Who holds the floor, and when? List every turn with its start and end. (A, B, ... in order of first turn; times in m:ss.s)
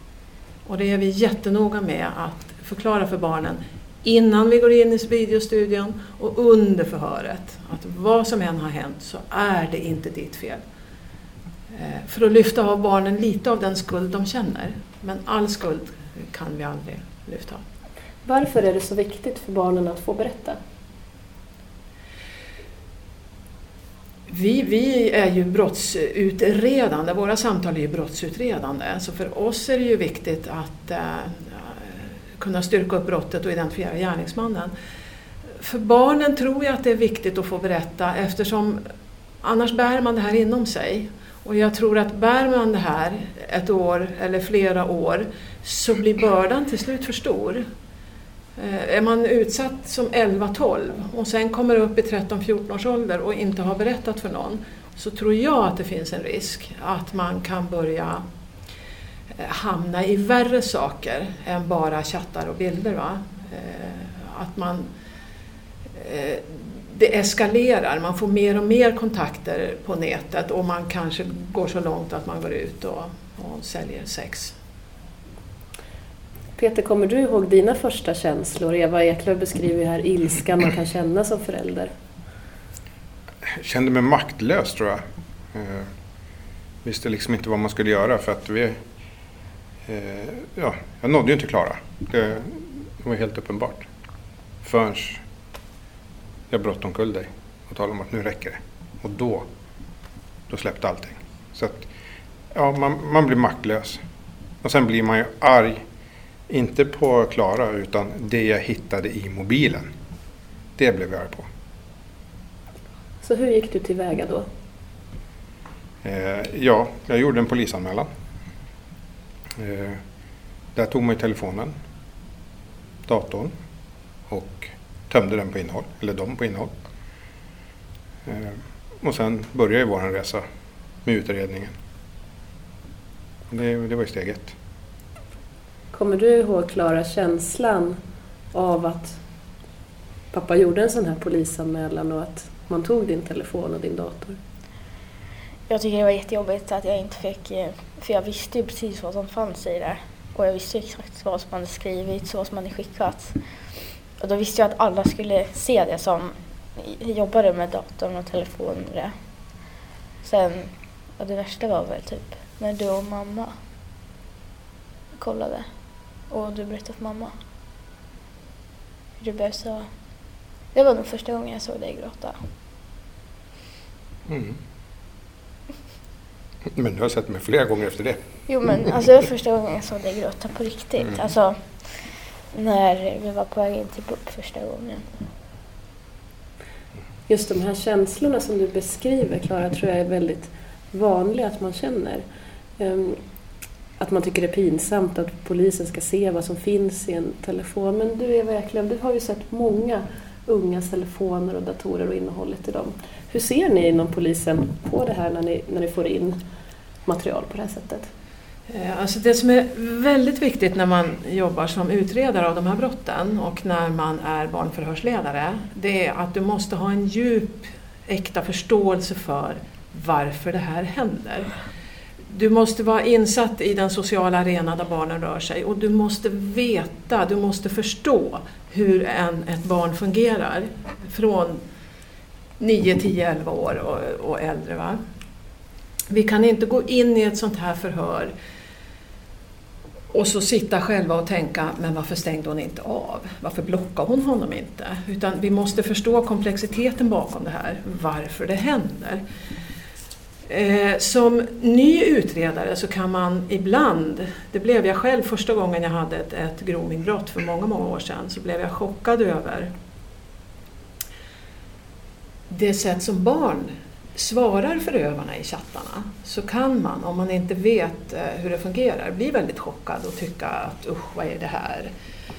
0:00.7-0:10.6 A
0:11.7-0:17.6 A
0:18.2-0:20.6 B
0:24.3-0:34.7 A
0:35.6-0:38.8 A
0:39.4-0:47.6 A
0:48.6-0:58.2 A
0:59.4-1:04.9 A
1:05.9-1:14.5 A
1:16.6-1:21.9 B
1:23.4-1:25.9 C
1:26.8-1:28.8 C
1:29.8-1:33.9 C
1:34.6-1:35.2 C
1:36.5-1:39.5 C
1:40.5-1:41.9 C
1:42.5-1:44.0 C
1:44.6-1:45.8 C
1:46.5-1:49.9 C
1:50.8-1:51.5 C
1:53.2-1:54.4 B
1:56.0-1:58.1 C
1:59.6-2:00.0 C
2:00.8-2:01.8 C
2:03.1-2:03.5 C
2:04.3-2:06.7 C
2:08.2-2:10.4 C
2:11.0-2:11.7 C
2:13.5-2:14.6 C
2:15.9-2:18.0 B
2:18.5-2:19.2 B
2:20.3-2:24.4 B
2:25.7-2:33.4 D
2:34.2-2:39.2 D
2:40.2-2:43.5 D
2:45.2-2:45.7 D
2:46.3-2:47.3 D
2:49.2-2:49.9 D
2:50.7-2:52.4 D
2:54.3-2:54.6 C
2:56.7-2:58.2 C
2:58.5-3:05.1 D
3:07.3-3:12.2 B
3:12.8-3:13.2 B
3:14.0-3:26.4 B
3:27.1-3:28.1 B
3:28.7-3:41.5 A
3:42.3-3:51.6 A
3:52.6-3:55.0 A
3:56.1-3:58.3 A
4:00.1-4:09.2 A
4:10.5-4:19.7 A
4:22.5-4:31.9 A